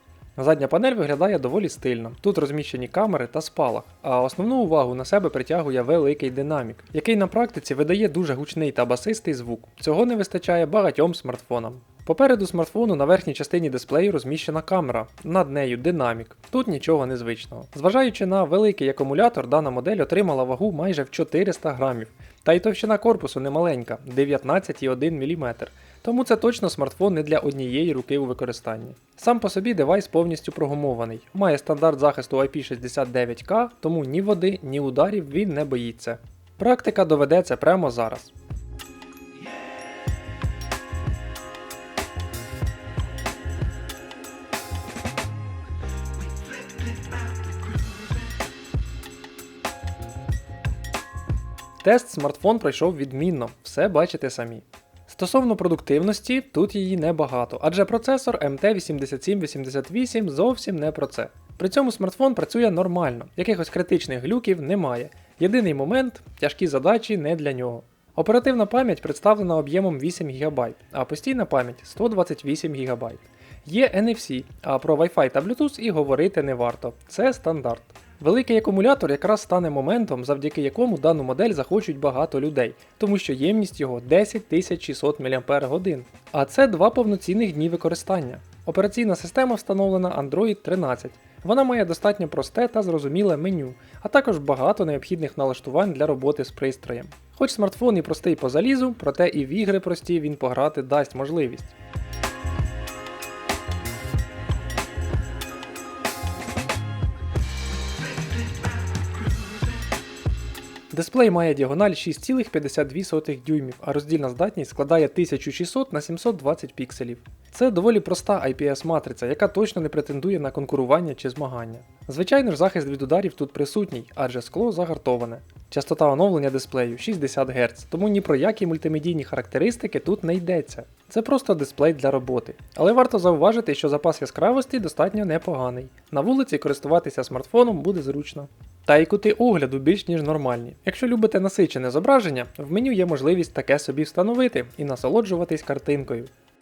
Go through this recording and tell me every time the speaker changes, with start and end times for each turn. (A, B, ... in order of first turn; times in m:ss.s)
0:00.4-0:38.3 A
0:51.8-1:41.7 A
1:50.9-2:26.3 A